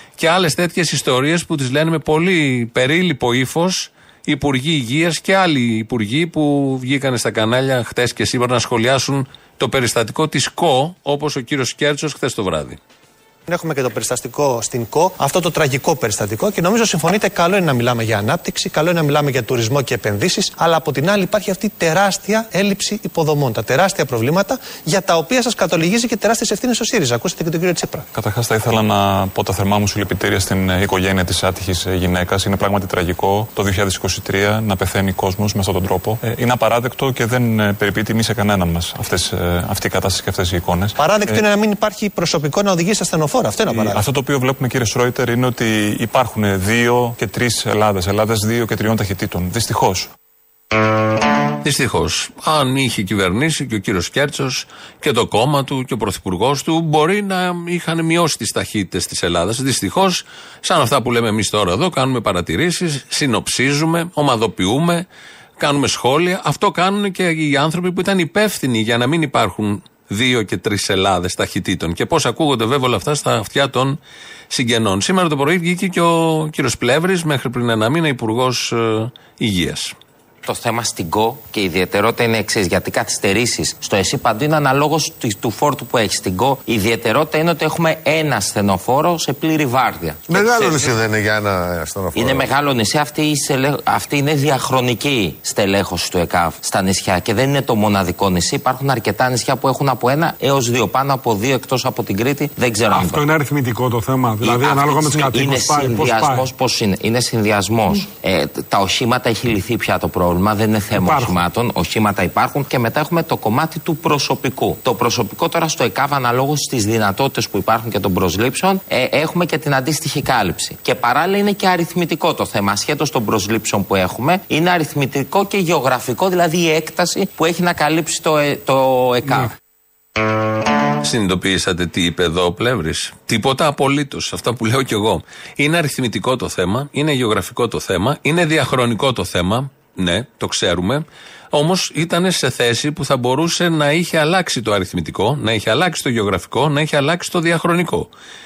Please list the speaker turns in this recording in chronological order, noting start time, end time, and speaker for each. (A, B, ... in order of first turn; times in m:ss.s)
0:00.2-0:12.8 A
0:13.5-0:28.1 B
0:28.1-0:41.4 C
0:41.0-0:44.0 B
0:43.7-0:50.1 C
0:51.6-1:05.1 A
1:05.6-1:14.0 A
1:14.5-1:20.0 A
1:20.4-1:31.0 D
1:30.3-1:32.5 E
1:32.1-1:43.2 D
1:42.9-1:46.5 F
1:44.4-2:09.6 D
1:50.9-1:51.4 F
2:11.0-2:28.1 A